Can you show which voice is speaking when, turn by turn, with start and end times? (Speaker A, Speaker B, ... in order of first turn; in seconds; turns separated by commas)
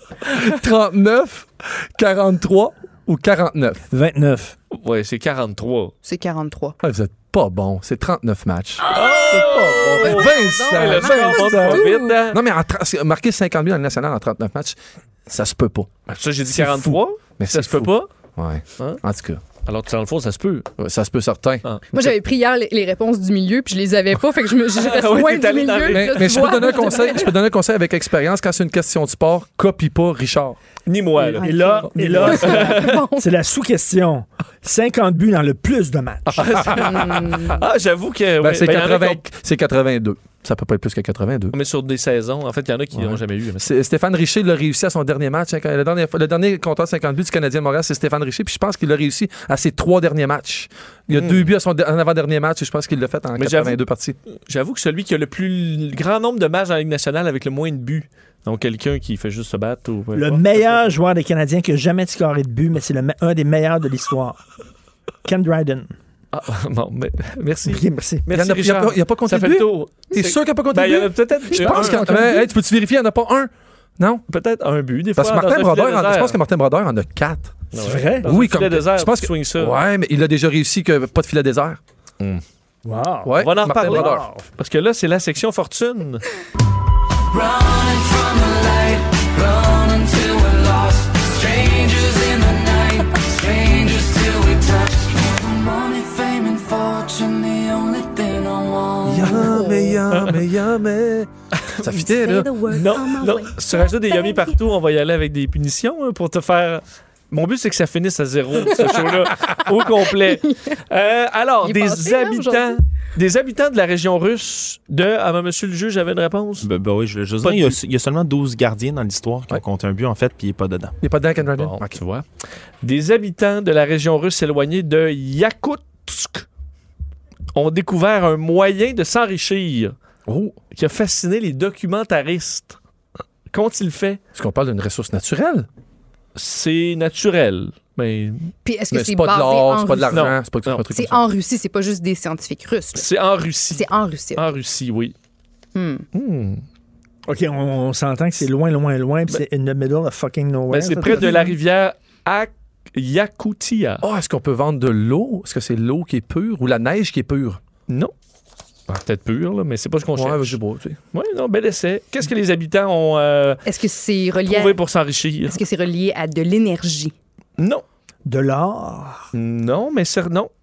Speaker A: 0.2-3.8, Speaker B: 3.9-4.6, Speaker C: 4.7-5.9, Speaker D: 6.0-6.8, Speaker A: 6.8-15.9, Speaker C: 8.9-12.4, Speaker D: 8.9-12.2, Speaker C: 16.1-18.1, Speaker A: 16.5-19.4, Speaker C: 19.6-20.7, Speaker A: 20.8-22.1, Speaker D: 21.9-27.3, Speaker C: 24.8-27.1, Speaker A: 25.9-30.6, Speaker C: 30.9-33.0, Speaker D: 31.2-33.3, Speaker B: 31.4-36.7, Speaker C: 36.4-39.2, Speaker A: 36.5-37.1, Speaker D: 36.8-37.6, Speaker A: 38.4-41.6, Speaker C: 41.5-43.7, Speaker A: 42.9-54.2, Speaker C: 51.1-51.5, Speaker C: 53.4-53.8, Speaker C: 54.5-60.6, Speaker B: 60.1-64.4, Speaker B: 65.2-65.9, Speaker C: 66.3-72.2, Speaker B: 67.7-68.2, Speaker A: 68.3-74.2, Speaker B: 71.5-72.5, Speaker C: 74.3-76.4, Speaker A: 75.2-81.8, Speaker C: 77.7-79.8, Speaker B: 77.8-78.3, Speaker B: 82.8-84.4, Speaker A: 83.2-84.3, Speaker C: 83.4-86.2, Speaker D: 92.8-93.1, Speaker D: 95.6-100.0, Speaker A: 99.0-102.5, Speaker C: 100.1-100.4, Speaker C: 101.6-101.9, Speaker D: 102.0-104.5, Speaker C: 102.7-116.7, Speaker D: 110.4-110.8, Speaker D: 111.6-112.8, Speaker E: 116.6-121.0, Speaker C: 117.4-117.8, Speaker A: 121.0-122.0, Speaker C: 121.5-122.2, Speaker C: 122.8-126.5, Speaker C: 127.5-129.9, Speaker A: 130.3-130.6, Speaker C: 130.7-132.8, Speaker C: 133.5-134.2, Speaker A: 134.4-135.7, Speaker C: 136.3-138.5, Speaker D: 138.7-140.3, Speaker A: 138.9-141.2, Speaker C: 140.1-140.9, Speaker D: 140.9-143.1, Speaker C: 142.9-145.2, Speaker D: 143.7-144.4, Speaker D: 145.8-146.1, Speaker C: 146.1-146.6, Speaker B: 147.3-151.4, Speaker C: 150.7-154.1, Speaker D: 151.1-151.5, Speaker A: 154.0-157.6, Speaker C: 158.9-160.6, Speaker A: 160.2-161.0, Speaker C: 161.1-163.6, Speaker D: 163.7-164.8, Speaker C: 164.4-165.6, Speaker D: 165.5-167.1, Speaker C: 167.6-167.8, Speaker B: 168.3-169.3, Speaker C: 169.3-170.5